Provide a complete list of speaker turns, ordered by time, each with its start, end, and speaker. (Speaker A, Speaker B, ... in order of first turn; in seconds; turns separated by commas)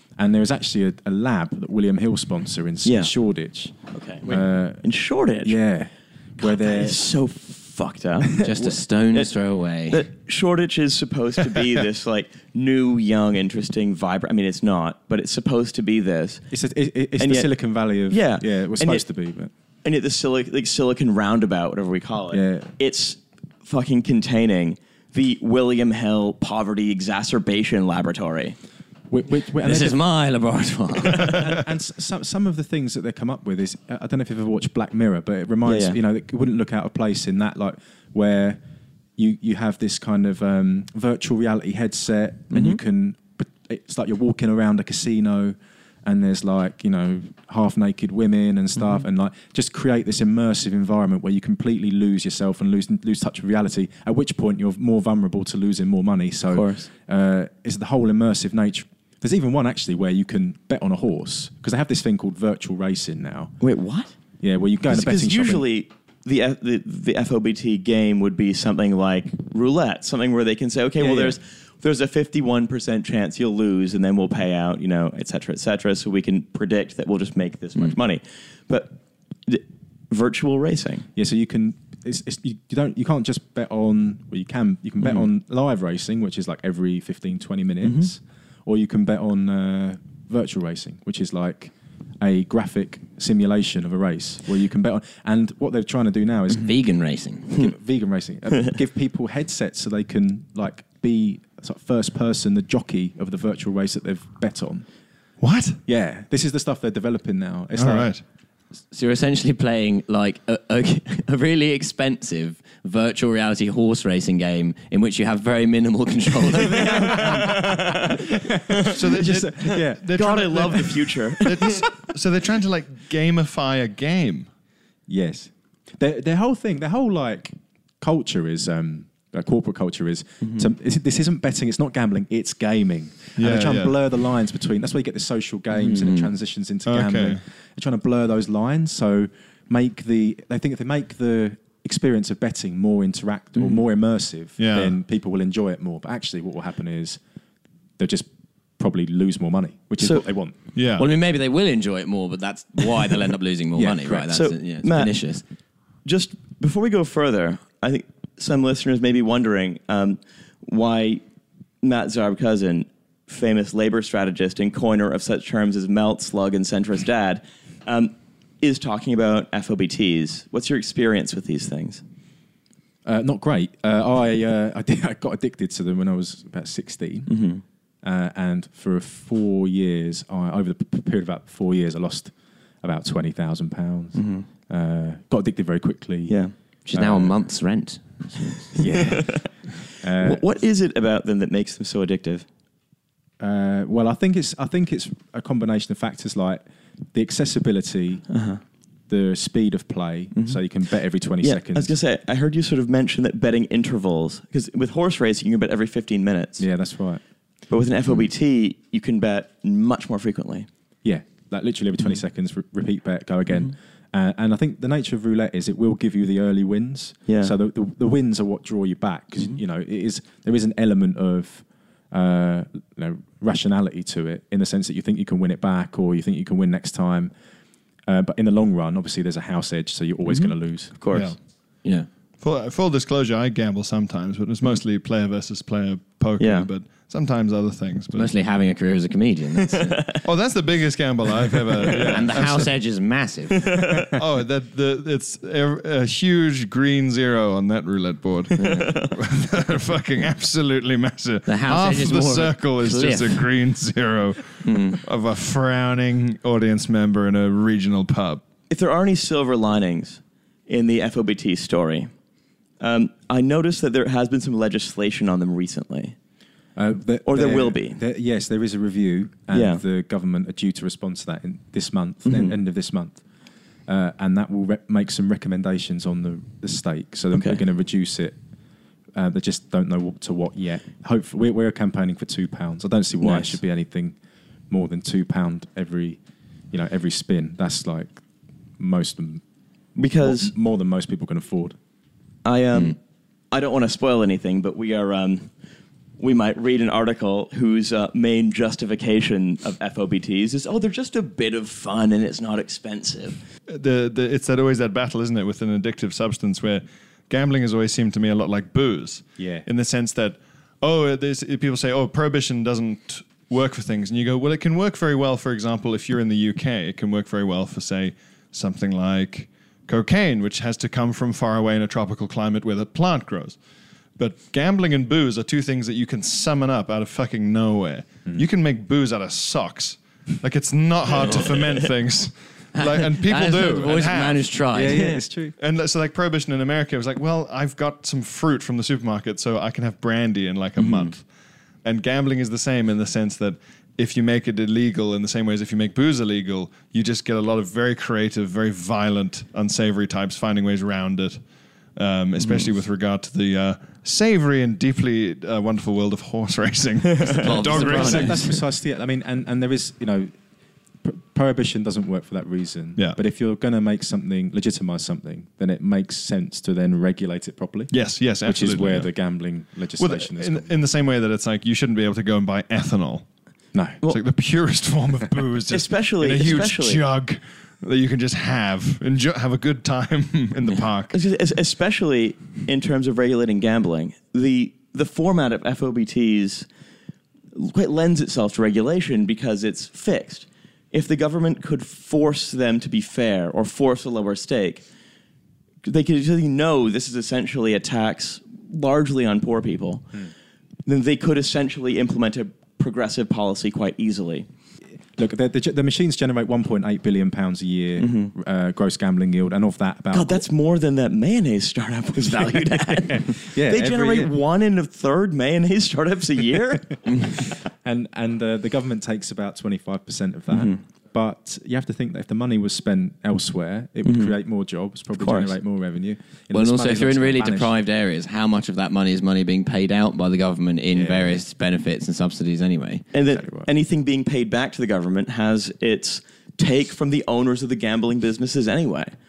Speaker A: 0.2-4.8, Speaker B: 2.9-3.1, Speaker B: 3.9-5.6, Speaker A: 5.4-7.0, Speaker B: 6.4-9.3, Speaker C: 8.4-10.1, Speaker B: 9.9-16.4, Speaker A: 16.5-19.5, Speaker B: 17.2-17.5, Speaker B: 18.1-19.1, Speaker B: 19.8-28.6, Speaker A: 22.3-22.7, Speaker A: 29.1-30.0, Speaker C: 29.6-31.4, Speaker A: 31.1-38.6, Speaker B: 35.6-36.0, Speaker A: 39.2-63.5, Speaker B: 42.5-42.8, Speaker B: 56.5-56.9, Speaker B: 63.6-64.1, Speaker A: 64.4-65.6, Speaker B: 64.9-81.1, Speaker A: 71.0-71.4, Speaker A: 81.2-96.8, Speaker B: 87.8-88.1, Speaker C: 96.5-97.7, Speaker A: 97.5-104.9, Speaker D: 105.4-105.8, Speaker A: 105.9-108.1, Speaker D: 107.8-108.2, Speaker C: 108.9-117.5, Speaker B: 116.6-119.1, Speaker A: 116.8-121.8, Speaker D: 118.8-124.5, Speaker B: 120.1-121.8, Speaker A: 125.1-147.2, Speaker D: 133.4-134.0, Speaker C: 135.9-136.2, Speaker D: 136.9-137.4, Speaker D: 144.6-144.9, Speaker A: 148.0-150.6, Speaker B: 150.0-150.2, Speaker D: 150.8-151.1, Speaker C: 151.0-155.4, Speaker A: 153.8-154.1, Speaker B: 154.1-155.2, Speaker B: 156.1-161.2, Speaker B: 161.8-172.0, Speaker A: 173.1-177.3, Speaker B: 177.3-177.6, Speaker A: 178.0-187.4, Speaker B: 184.2-184.4, Speaker B: 186.3-186.5, Speaker C: 186.9-188.2, Speaker A: 188.8-190.4, Speaker B: 188.8-189.5, Speaker B: 190.2-192.4, Speaker A: 193.4-198.3, Speaker B: 198.3-198.6, Speaker A: 199.1-201.9, Speaker B: 201.4-206.7, Speaker A: 206.6-207.2, Speaker B: 207.7-210.7, Speaker A: 211.0-227.3, Speaker B: 217.3-217.5, Speaker A: 228.1-231.0, Speaker B: 230.3-231.3, Speaker D: 232.4-238.3, Speaker B: 236.4-236.7, Speaker C: 238.1-240.1, Speaker B: 239.7-240.2, Speaker D: 240.2-242.7, Speaker C: 242.1-243.7, Speaker B: 243.6-244.2, Speaker D: 244.1-258.4, Speaker B: 248.6-249.2, Speaker C: 251.5-253.5, Speaker C: 254.6-255.0, Speaker B: 258.7-262.1, Speaker B: 262.8-266.1, Speaker A: 266.8-273.2, Speaker B: 267.3-268.0, Speaker B: 269.5-269.8, Speaker B: 272.2-272.6, Speaker A: 273.9-278.4, Speaker B: 277.3-277.6, Speaker A: 279.1-284.2, Speaker B: 283.2-283.6, Speaker A: 284.7-286.2, Speaker A: 286.7-288.2, Speaker A: 288.8-289.4, Speaker B: 290.0-290.5, Speaker A: 290.2-291.8, Speaker B: 292.4-293.0, Speaker B: 293.5-295.5, Speaker B: 296.2-303.4, Speaker D: 303.7-323.6, Speaker A: 309.4-309.7, Speaker D: 324.2-334.5, Speaker B: 331.2-331.9, Speaker C: 332.7-335.2, Speaker A: 334.7-335.6, Speaker D: 335.6-341.2, Speaker D: 341.8-351.4, Speaker D: 351.9-358.5, Speaker B: 357.1-358.4, Speaker C: 357.3-358.5, Speaker A: 357.7-360.3, Speaker A: 361.0-370.7, Speaker D: 367.9-369.1, Speaker D: 370.0-373.3, Speaker A: 373.7-374.0, Speaker D: 374.1-381.2, Speaker B: 375.7-377.0, Speaker B: 381.1-386.7, Speaker B: 387.5-394.8, Speaker B: 395.8-400.1, Speaker B: 400.9-404.5, Speaker A: 405.2-410.4, Speaker B: 408.0-408.3, Speaker B: 410.1-417.5, Speaker A: 412.7-414.3, Speaker A: 417.5-427.7, Speaker B: 420.5-420.8, Speaker B: 424.0-424.4, Speaker B: 425.2-425.6, Speaker C: 426.5-433.0, Speaker A: 430.9-431.4, Speaker B: 433.1-439.1, Speaker A: 433.3-433.7